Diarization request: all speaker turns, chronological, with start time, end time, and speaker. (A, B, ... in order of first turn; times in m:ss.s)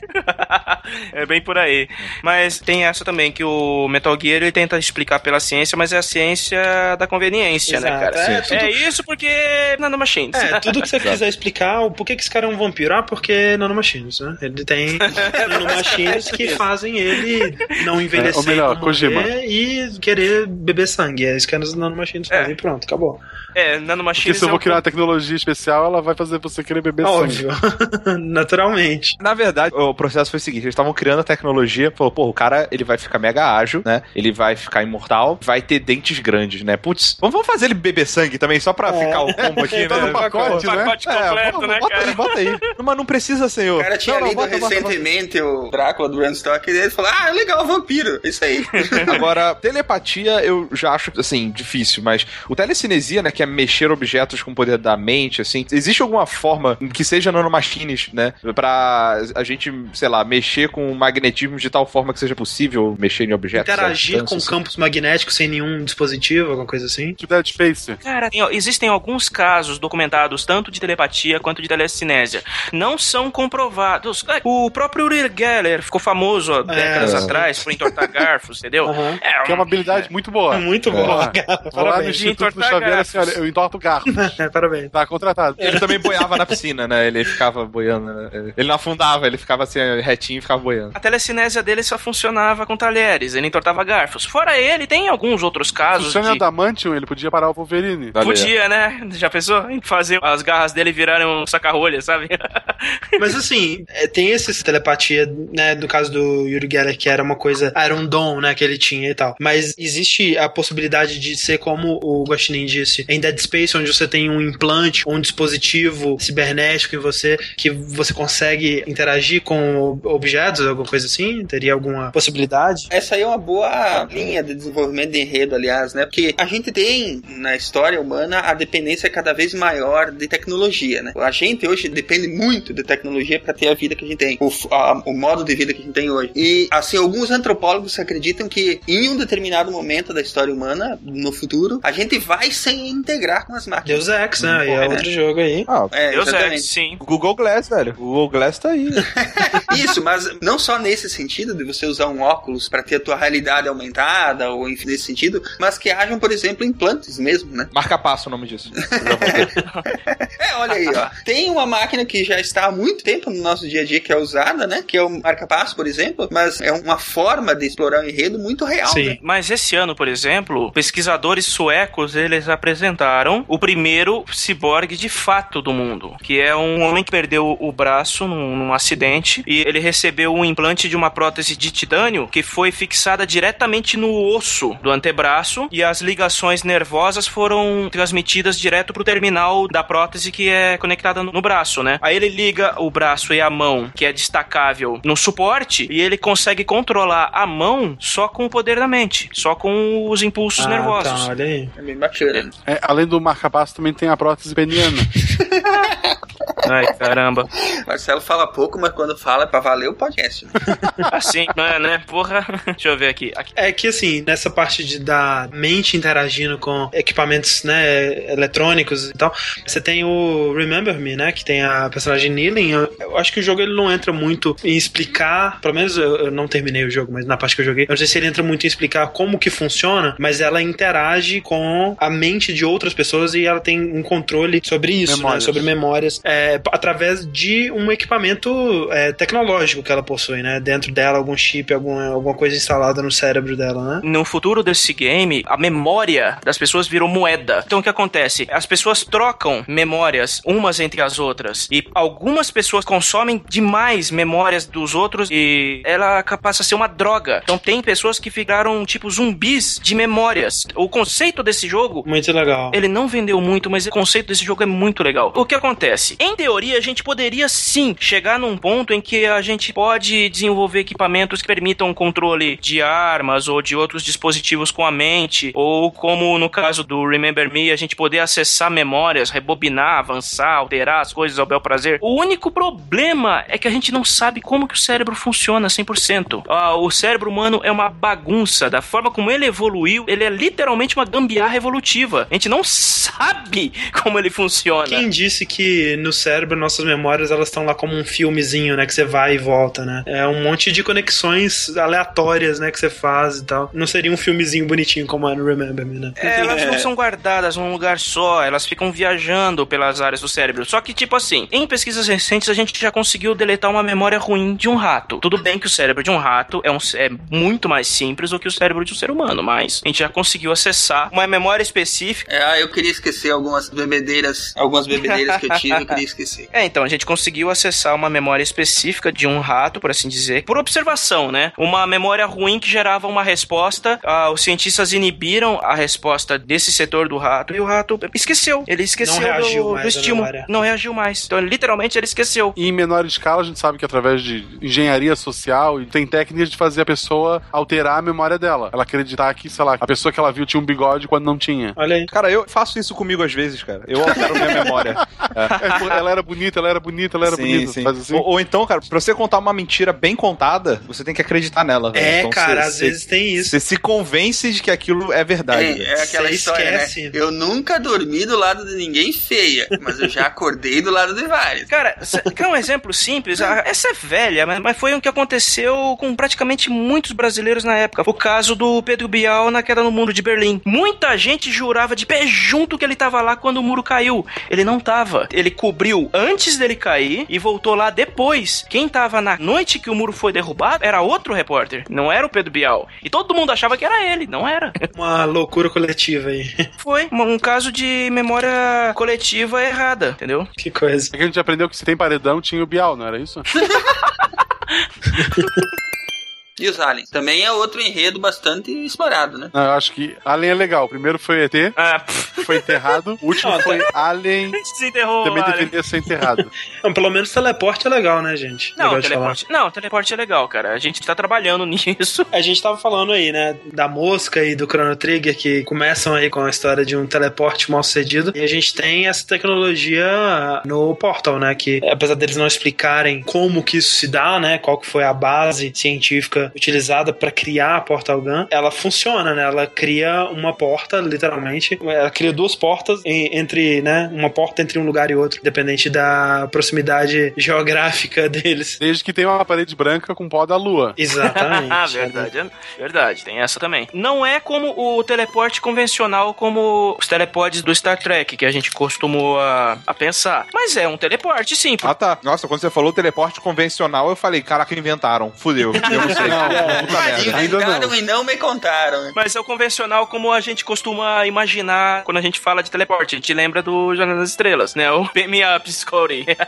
0:00.1-0:10.7 A
0:07.7-0:08.7 B
0:08.2-0:08.6 C
0:10.3-0:23.2 B
0:15.0-0:16.6 A
0:18.1-0:19.3 D
0:23.5-0:24.8 A
0:24.2-0:27.4 D
0:27.0-0:29.2 B
0:29.2-0:45.0 C
0:38.9-0:40.6 B
0:39.9-0:40.9 D
0:40.6-0:42.6 A
0:43.8-0:49.2 E
0:49.1-1:04.5 C
1:03.5-1:07.2 B
1:07.2-1:08.0 D
1:08.0-1:20.1 A
1:16.7-1:17.5 B
1:17.0-1:17.4 C
1:18.8-1:19.2 B
1:19.4-1:24.3 D
1:20.5-1:22.2 B
1:22.2-1:23.4 A
1:24.1-1:24.9 B
1:24.9-1:25.8 D
1:25.6-1:26.5 B
1:25.6-1:30.9 C
1:31.0-1:36.4 A
1:36.0-1:38.1 D
1:38.1-1:38.5 C
1:38.2-1:42.9 A
1:43.2-2:02.9 B
2:02.9-2:24.0 E
2:23.8-2:25.7 B
2:24.6-2:25.0 E
2:25.9-2:26.7 E
2:26.1-2:27.0 A
2:27.0-2:29.1 C
2:29.3-2:37.7 E
2:37.7-2:39.5 C
2:39.0-2:39.5 E
2:40.4-2:49.2 E
2:48.8-2:49.2 B
2:49.2-3:21.3 A
3:20.6-3:21.7 B
3:21.8-3:22.5 E
3:22.6-3:25.1 D
3:25.4-3:26.2 E
3:26.6-3:27.5 A
3:27.8-3:30.6 E
3:30.7-3:31.1 B
3:31.1-3:33.5 A
3:33.6-4:04.0 B
3:55.1-3:55.6 D
4:04.0-4:22.0 A
4:22.0-4:22.8 B
4:22.7-4:55.0 A
4:54.8-5:06.2 B
5:06.2-5:22.2 A
5:06.2-5:06.9 E
5:22.3-5:26.5 E
5:24.9-5:26.0 A
5:26.5-5:42.5 A
5:39.0-5:40.5 B
5:42.6-5:51.8 D
5:51.8-5:52.1 B
5:52.1-5:55.7 C
5:54.9-5:58.2 D
5:57.2-6:05.9 C
6:01.9-6:03.6 B
6:05.5-6:11.7 E
6:06.0-6:07.2 B
6:11.7-6:34.8 A
6:34.9-6:36.6 B
6:36.8-6:40.5 A
6:40.6-6:41.1 B
6:41.1-6:43.4 D
6:45.1-6:45.6 B
6:46.6-6:49.5 E
6:49.5-6:51.7 D
6:51.8-6:52.9 A
6:52.4-6:54.6 D
6:53.4-6:53.8 B
6:54.6-6:55.7 A
6:55.2-6:56.5 D
6:56.3-6:59.4 B
6:58.8-7:02.3 A
7:02.3-7:28.8 B
7:28.8-7:31.0 D
7:31.0-7:32.3 B
7:31.2-7:41.9 A
7:41.8-7:47.5 C
7:46.0-7:46.9 B
7:46.1-7:47.9 D
7:46.8-7:49.1 E
7:49.1-7:56.3 A